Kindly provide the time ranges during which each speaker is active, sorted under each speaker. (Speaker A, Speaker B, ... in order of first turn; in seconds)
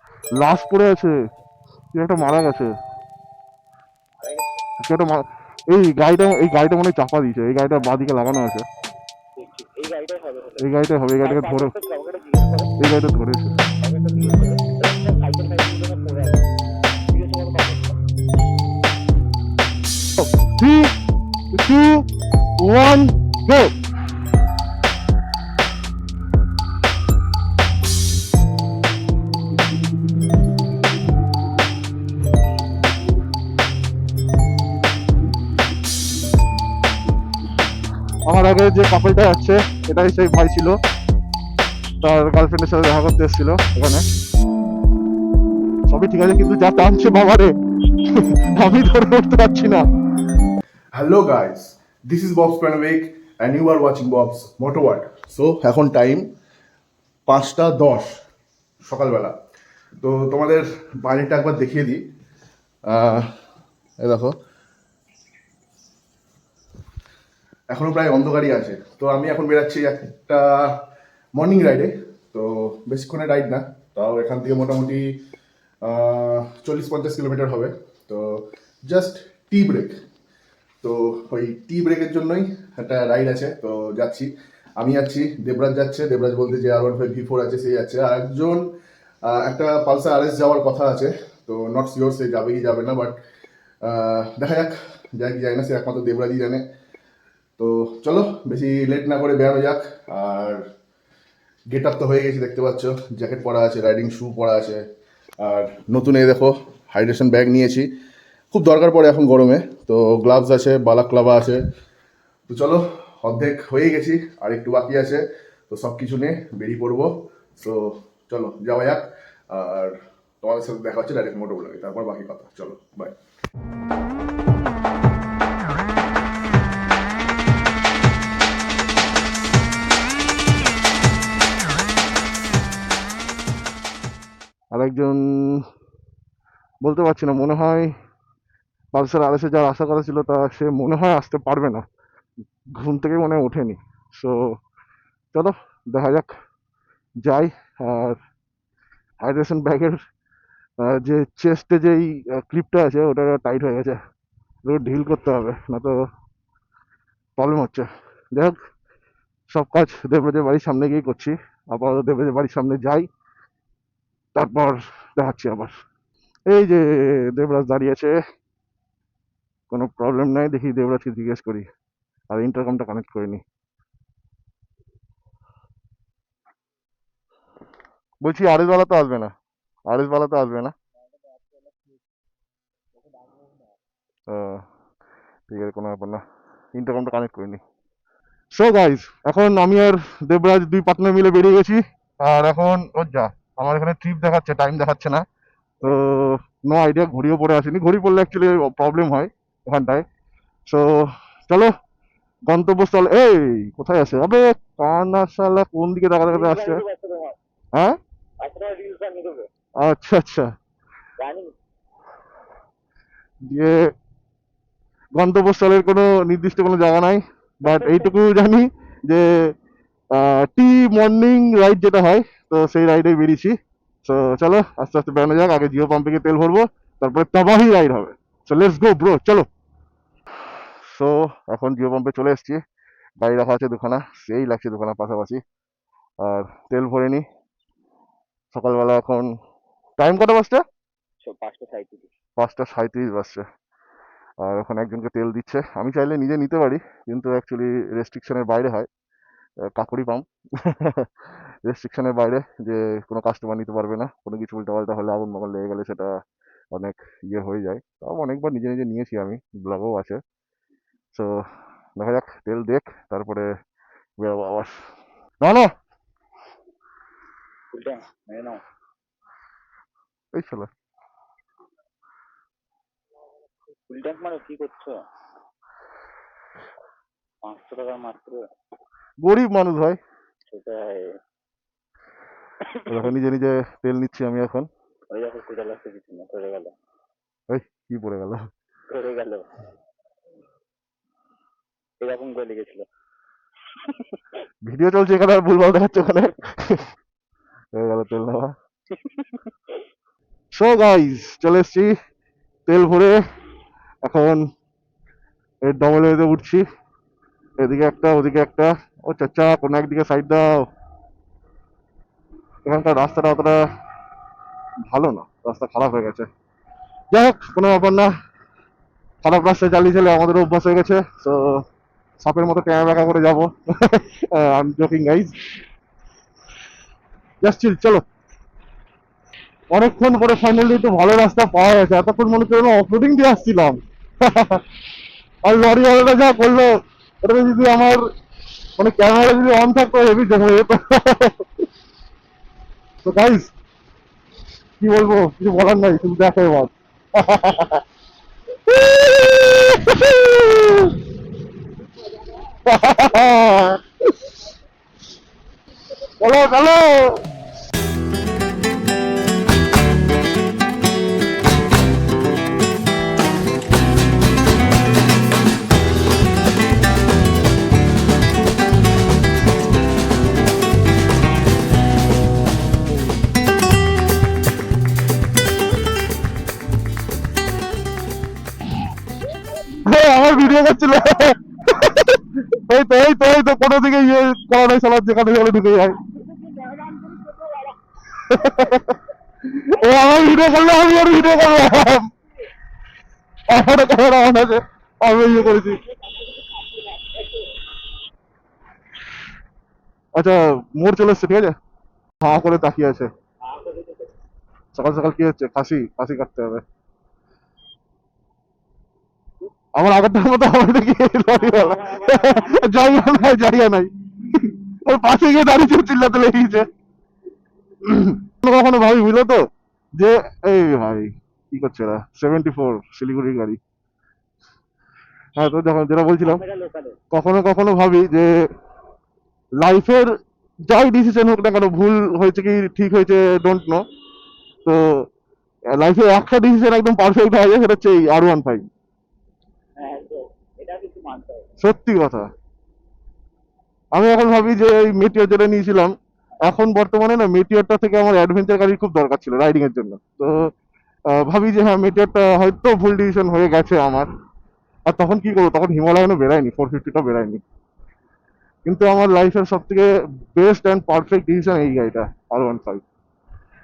Speaker A: 0.4-1.1, 1.9-2.7, 4.8-8.7, 10.6-11.7, 12.8-13.5, 20.2-20.9, 21.5-22.1, 22.6-23.7, 38.3-40.8, 42.0-44.0, 45.9-47.5, 48.1-49.8, 134.7-135.6, 136.8-137.9, 138.9-141.8, 142.8-144.5, 145.3-146.3, 147.2-148.2, 149.2-150.0, 150.8-154.0, 154.7-156.0, 157.4-158.6, 159.5-163.1, 164.3-165.8, 166.5-168.2, 169.7-171.7, 172.3-173.4, 178.2-179.3, 179.9-180.7, 184.3-184.6, 185.5-186.2, 186.7-187.6, 188.5-195.2, 195.8-200.0, 200.7-201.7, 202.5-206.8, 209.8-210.5, 213.4-213.9, 215.2-219.5, 220.1-229.5, 230.9-232.6, 233.2-235.4, 236.2-237.2, 238.5-239.3, 240.0-240.6, 242.4-243.4, 244.4-248.9, 249.6-251.1, 251.7-256.1, 256.7-260.2, 261.1-261.4, 262.0-263.5, 264.2-264.8, 265.4-265.7, 270.3-270.7, 279.2-280.0, 282.9-284.7, 287.5-288.4, 294.6-296.8, 297.7-298.5, 300.5-301.9, 302.7-303.2, 304.0-304.5, 305.6-306.6, 307.6-310.6, 312.6-313.6, 314.9-316.3, 317.1-318.1, 319.2-321.6, 322.2-325.4, 327.4-328.0, 329.7-334.6, 335.4-338.0, 338.8-341.4, 343.0-343.5, 344.8-347.8, 348.7-350.9, 352.6-354.1, 356.2-357.2, 379.8-386.0, 388.2-389.0, 389.5-392.1, 393.5-395.8, 400.1-401.5, 402.2-403.1, 404.7-406.6, 409.8-416.7, 417.8-419.5, 420.0-423.6, 425.4-426.4, 427.1-428.5, 429.6-430.1, 430.7-433.8, 434.6-435.0, 435.7-438.6, 441.6-442.3, 443.9-445.9, 446.5-450.5, 451.1-454.1, 454.9-457.4, 458.6-462.8
Speaker B: 4.2-4.6, 9.4-10.7, 11.2-12.7, 13.8-16.4, 17.1-18.0, 206.3-207.4, 208.4-209.5, 211.2-211.5, 217.7-218.1, 241.2-242.1, 267.7-268.6, 273.9-275.0, 277.4-278.4, 280.5-281.2, 282.6-283.1, 285.1-286.7, 288.9-289.5, 292.0-292.9, 298.9-299.4, 352.1-352.6, 379.1-381.3, 386.0-387.8, 388.4-388.7, 395.3-397.5, 403.4-404.1, 411.3-413.2, 426.2-427.0, 439.8-441.5
Speaker C: 50.9-56.3, 57.3-58.2, 58.8-59.4, 60.0-62.0, 62.9-63.3, 64.0-64.3, 67.7-70.8, 71.3-75.2, 75.8-80.0, 80.8-88.6, 89.2-93.2, 93.8-96.6, 97.6-100.6, 101.7-104.8, 105.4-107.9, 108.5-111.6, 112.5-123.2